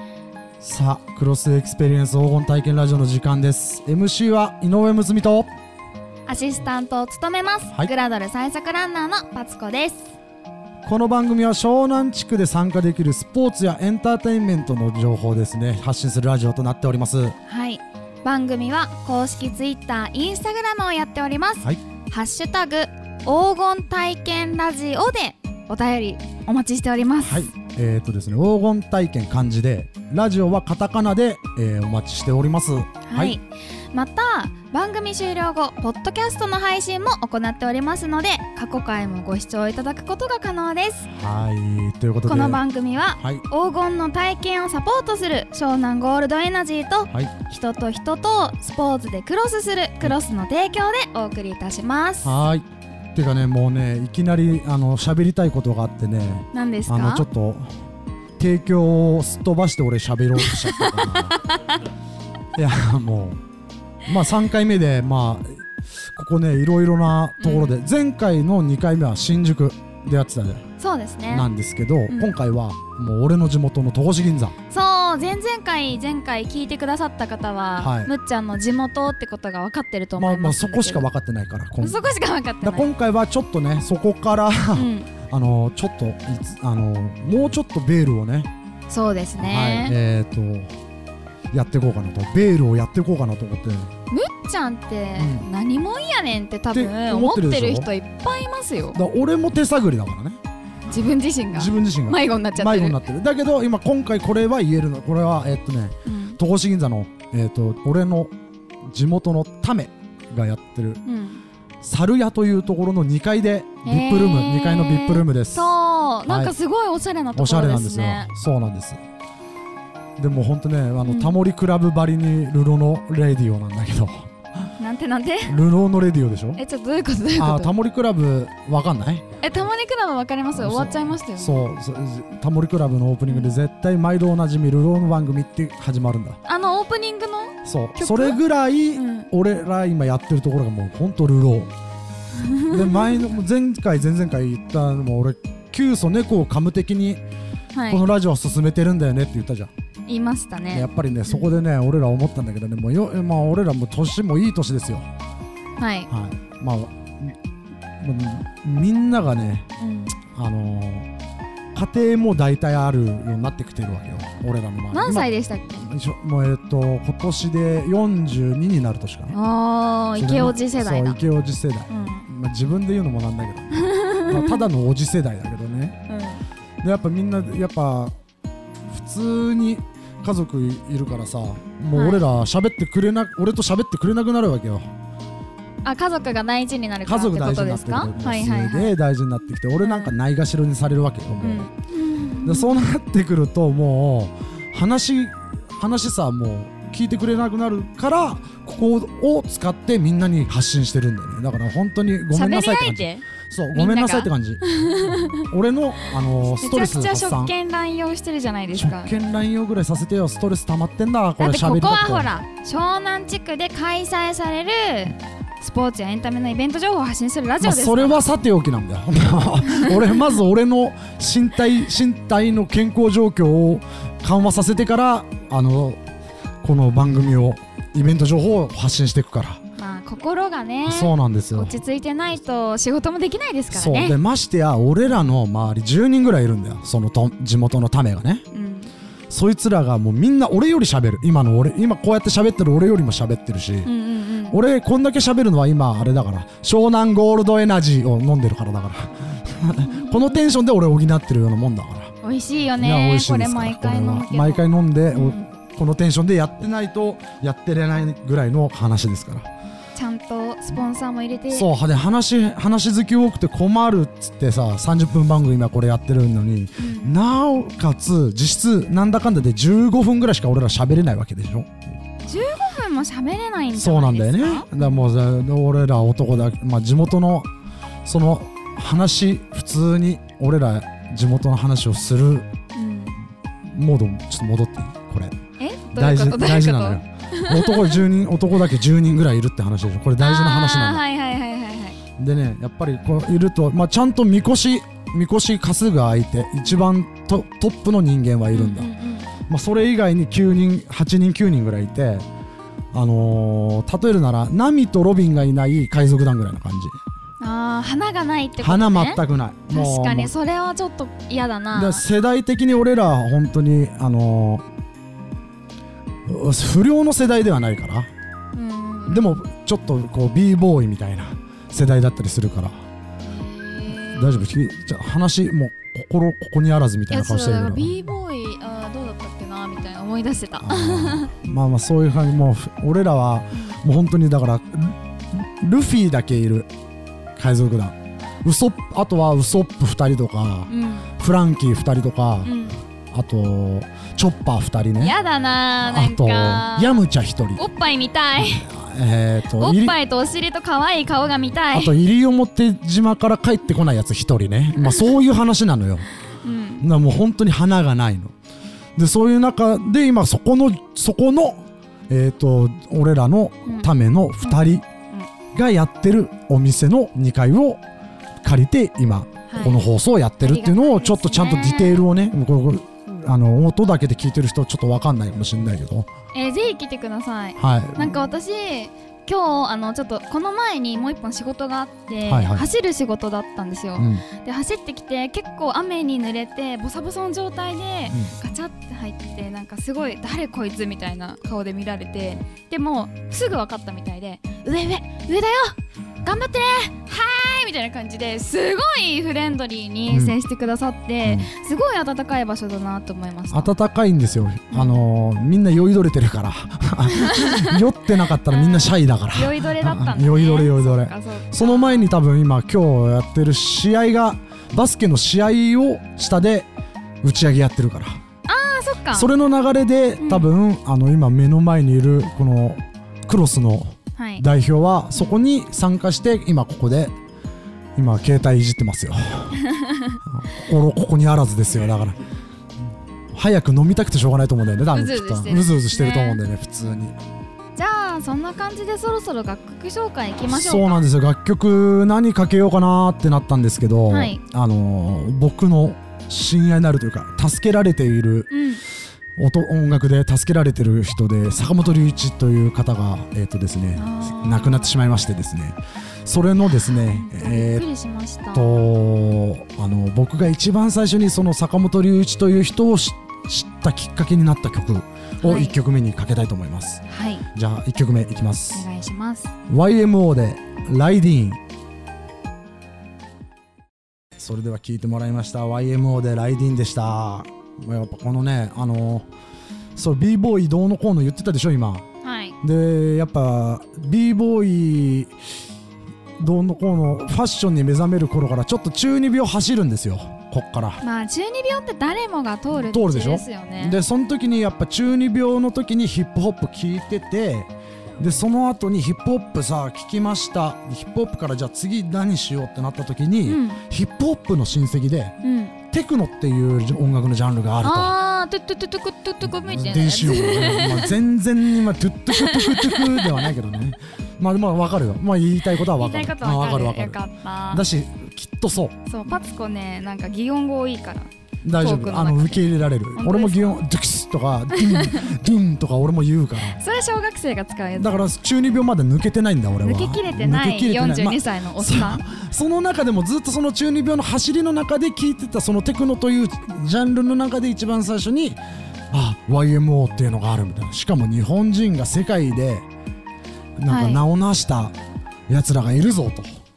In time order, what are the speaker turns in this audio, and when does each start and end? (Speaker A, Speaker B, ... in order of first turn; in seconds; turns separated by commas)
Speaker A: 0.6-5.5, Speaker B: 6.3-10.1, Speaker A: 10.8-17.4, Speaker B: 17.4-27.5, Speaker A: 27.2-33.4, Speaker B: 33.1-41.1, Speaker A: 41.1-42.6, Speaker B: 42.2-52.4, Speaker A: 43.2-43.4, Speaker A: 52.2-57.7, Speaker B: 56.5-57.2, Speaker A: 58.4-61.3, Speaker B: 60.4-61.8, Speaker A: 62.5-63.4, Speaker A: 64.0-70.6, Speaker B: 67.4-67.7, Speaker B: 70.8-71.5, Speaker A: 71.3-74.5, Speaker B: 72.1-72.3, Speaker B: 74.7-81.1, Speaker A: 77.8-78.1, Speaker A: 80.2-82.0, Speaker B: 81.8-82.9, Speaker A: 82.6-88.5, Speaker B: 84.7-85.1, Speaker B: 88.9-90.0, Speaker A: 89.4-90.7, Speaker A: 91.5-93.9, Speaker B: 94.1-99.0, Speaker A: 95.2-95.5, Speaker A: 96.7-97.9, Speaker A: 98.9-100.4, Speaker B: 100.9-103.0, Speaker A: 101.5-108.3, Speaker B: 106.0-106.4, Speaker A: 108.8-111.0, Speaker B: 111.0-111.4, Speaker A: 111.8-115.7, Speaker B: 113.8-118.3, Speaker A: 116.3-116.5, Speaker A: 117.3-119.0, Speaker A: 120.2-124.3, Speaker B: 121.0-121.4, Speaker B: 124.8-125.5, Speaker A: 125.5-126.6, Speaker B: 126.5-127.7, Speaker A: 127.3-129.2, Speaker B: 129.4-131.7, Speaker A: 130.5-136.4, Speaker B: 133.3-133.5, Speaker B: 136.4-138.4, Speaker A: 137.6-141.7, Speaker B: 138.9-139.3, Speaker B: 142.3-143.2, Speaker A: 142.7-147.2, Speaker B: 147.7-148.0, Speaker A: 147.9-149.7, Speaker B: 150.1-151.5, Speaker A: 150.7-155.1, Speaker B: 155.8-156.1, Speaker A: 156.1-157.4, Speaker A: 158.0-159.7, Speaker B: 159.8-160.1, Speaker A: 160.3-161.1, Speaker A: 161.7-169.3, Speaker B: 164.9-165.8, Speaker B: 169.3-171.2, Speaker A: 170.2-176.0, Speaker B: 171.9-172.3, Speaker B: 173.7-174.6, Speaker B: 176.1-176.4, Speaker A: 176.8-178.1, Speaker A: 178.9-184.9, Speaker B: 181.9-182.2, Speaker B: 185.8-188.9, Speaker A: 187.0-191.7, Speaker B: 189.8-190.1, Speaker B: 191.4-192.7, Speaker A: 192.4-207.5, Speaker B: 202.3-205.4, Speaker B: 206.5-209.1, Speaker A: 208.7-212.3, Speaker B: 211.4-218.3, Speaker A: 217.6-226.0, Speaker A: 226.6-229.6, Speaker B: 229.8-234.2, Speaker A: 230.9-231.8, Speaker A: 233.7-238.4, Speaker B: 238.5-238.9, Speaker A: 239.3-243.9, Speaker B: 243.8-244.6, Speaker A: 244.5-252.1, Speaker B: 249.8-250.4, Speaker B: 252.2-255.5, Speaker A: 252.8-259.5, Speaker B: 259.9-261.7, Speaker A: 261.5-271.8, Speaker B: 266.8-267.1, Speaker B: 272.2-275.0, Speaker A: 273.7-277.5, Speaker A: 278.0-282.5, Speaker B: 282.7-283.2, Speaker A: 283.6-285.3, Speaker B: 285.6-288.0, Speaker A: 285.9-291.0, Speaker B: 290.2-292.0, Speaker A: 292.2-298.9, Speaker B: 298.5-299.3, Speaker A: 299.5-302.3, Speaker A: 302.9-307.0, Speaker B: 307.4-312.0, Speaker A: 308.6-310.3, Speaker A: 311.7-314.6, Speaker A: 316.2-318.1, Speaker B: 318.5-319.3, Speaker A: 319.1-322.8, Speaker B: 323.2-324.5, Speaker A: 324.1-327.9, Speaker B: 327.1-331.3, Speaker A: 330.6-336.7, Speaker A: 337.4-342.5, Speaker B: 340.7-341.1, Speaker B: 342.4-342.8, Speaker A: 343.1-345.1, Speaker B: 345.0-347.0, Speaker A: 345.8-347.6, Speaker B: 347.6-348.7, Speaker A: 348.4-349.9, Speaker B: 349.6-351.9, Speaker A: 351.7-356.1, Speaker B: 354.8-355.1, Speaker B: 356.4-356.9, Speaker A: 356.8-358.3, Speaker A: 358.9-364.8, Speaker B: 363.6-365.3, Speaker A: 365.5-367.8, Speaker A: 368.4-376.1, Speaker B: 369.5-369.8, Speaker B: 370.4-372.0, Speaker B: 376.3-403.7, Speaker A: 377.6-378.1, Speaker A: 382.2-382.7, Speaker A: 384.0-384.2, Speaker A: 400.1-400.4, Speaker A: 403.5-416.7, Speaker B: 404.7-405.0, Speaker B: 407.1-407.8, Speaker B: 408.5-412.1, Speaker A: 417.2-418.2, Speaker B: 418.5-419.3, Speaker A: 419.1-427.1, Speaker B: 420.2-420.5, Speaker B: 424.2-424.4, Speaker A: 427.9-429.6, Speaker B: 429.6-430.2, Speaker A: 430.2-432.2, Speaker A: 433.3-437.2, Speaker B: 434.9-436.4, Speaker B: 437.8-441.0, Speaker A: 440.5-448.5, Speaker B: 444.1-444.4, Speaker B: 448.5-448.8, Speaker A: 449.4-457.9, Speaker B: 453.9-455.0, Speaker B: 456.7-458.9, Speaker A: 458.5-468.9, Speaker B: 465.4-465.8, Speaker B: 467.1-467.4, Speaker B: 468.7-469.5, Speaker A: 469.7-471.6, Speaker A: 474.4-479.3, Speaker A: 479.9-482.1, Speaker B: 482.2-482.6, Speaker A: 482.6-485.3, Speaker A: 486.4-491.0, Speaker B: 491.0-494.0, Speaker A: 492.8-505.4, Speaker B: 503.4-503.8, Speaker B: 505.4-505.7, Speaker A: 505.9-508.1, Speaker B: 507.8-511.1, Speaker A: 509.4-517.2, Speaker B: 512.3-513.5, Speaker B: 515.9-517.8, Speaker A: 517.7-519.0, Speaker B: 519.1-523.8, Speaker A: 521.6-526.8, Speaker B: 524.7-525.3, Speaker B: 526.7-528.3, Speaker A: 528.0-538.6, Speaker B: 529.8-532.2, Speaker A: 539.1-542.9, Speaker A: 543.8-544.9, Speaker B: 543.9-544.2, Speaker A: 545.5-546.6